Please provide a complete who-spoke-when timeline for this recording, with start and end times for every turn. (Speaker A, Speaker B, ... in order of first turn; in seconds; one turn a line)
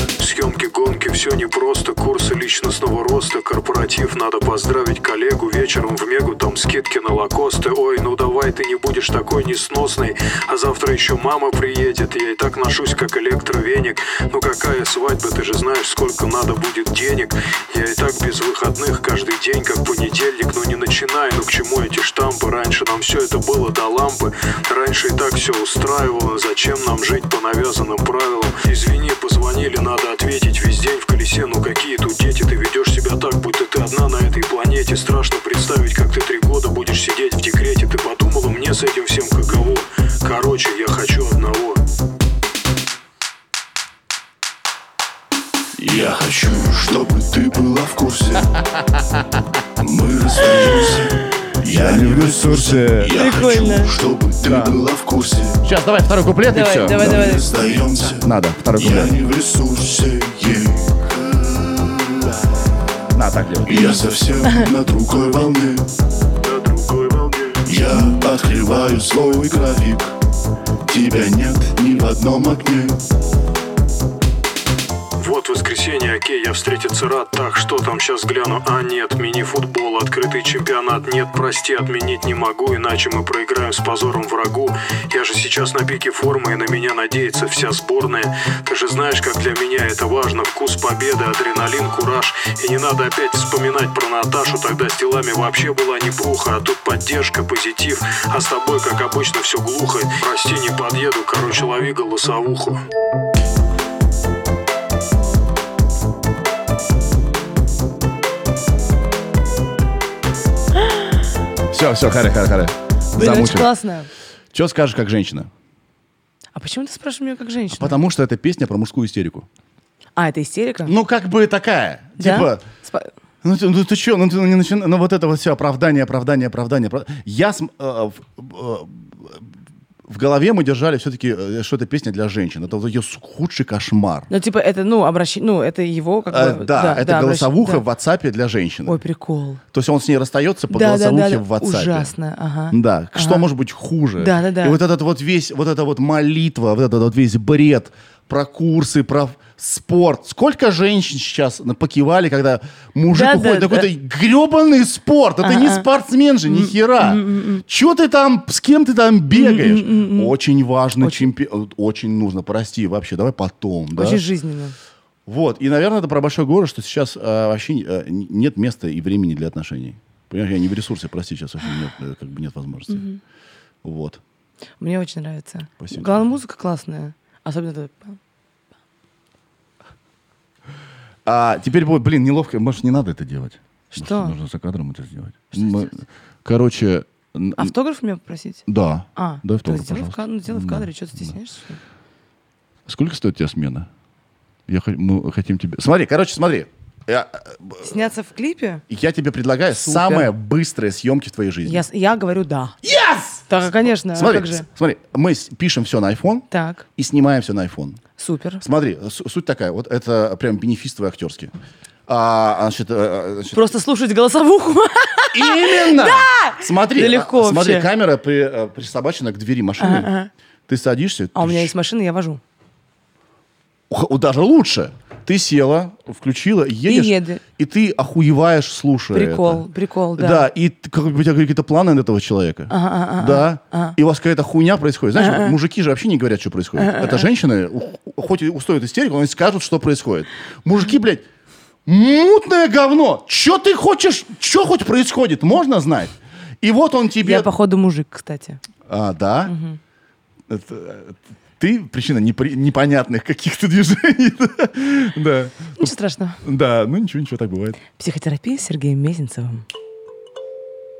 Speaker A: 0.2-41.8
Speaker B: 45.8-48.6
Speaker B: 49.8-55.6
Speaker C: 51.7-53.2
Speaker D: 53.1-53.9
Speaker C: 54.4-54.8
Speaker C: 55.6-57.3
Speaker D: 56.5-57.5
Speaker B: 56.9-62.5
Speaker C: 58.2-59.1
Speaker C: 63.1-63.8
Speaker B: 63.6-65.9
Speaker A: 66.5-67.3
Speaker B: 66.8-70.1
Speaker B: 70.8-73.0
Speaker A: 75.2-102.8
Speaker C: 111.7-113.7
Speaker D: 113.1-114.1
Speaker C: 114.5-115.5
Speaker D: 116.5-118.0
Speaker C: 117.7-119.5
Speaker D: 120.2-120.9
Speaker C: 120.8-122.6
Speaker D: 122.2-123.1
Speaker C: 123.4-129.5
Speaker C: 130.1-134.3
Speaker D: 134.3-137.8
Speaker C: 136.3-139.0
Speaker D: 138.8-139.6
Speaker C: 139.7-142.1
Speaker D: 140.7-143.5
Speaker C: 142.7-164.2
Speaker D: 144.2-144.8
Speaker D: 153.1-153.9
Speaker D: 155.4-155.8
Speaker D: 156.5-157.6
Speaker D: 159.3-160.3
Speaker D: 161.0-161.3
Speaker D: 163.9-164.7
Speaker C: 165.2-173.1
Speaker D: 172.9-173.2
Speaker C: 173.8-174.2
Speaker D: 174.8-178.2
Speaker C: 175.8-176.3
Speaker C: 181.2-187.7
Speaker D: 183.9-184.4
Speaker D: 185.5-185.9
Speaker D: 187.6-191.8
Speaker C: 188.7-191.3
Speaker C: 192.9-193.9
Speaker C: 194.7-197.9
Speaker D: 197.8-198.8
Speaker C: 198.9-201.8
Speaker D: 199.7-200.3
Speaker D: 201.6-202.8
Speaker C: 202.8-208.0
Speaker D: 203.5-204.7
Speaker D: 206.5-206.8
Speaker D: 208.2-208.6
Speaker C: 208.6-211.5
Speaker C: 212.1-213.7
Speaker D: 213.5-217.9
Speaker C: 215.3-220.1
Speaker D: 219.8-220.3
Speaker C: 220.7-221.7
Speaker D: 221.3-222.4
Speaker C: 223.9-241.2
Speaker D: 226.8-227.4
Speaker D: 229.1-230.5
Speaker D: 232.7-233.9
Speaker D: 235.2-235.6
Speaker D: 236.8-237.3
Speaker C: 241.8-247.5
Speaker D: 247.2-248.6
Speaker C: 248.9-249.5
Speaker D: 249.4-249.8
Speaker C: 250.5-257.8
Speaker D: 255.8-256.4
Speaker D: 258.0-259.6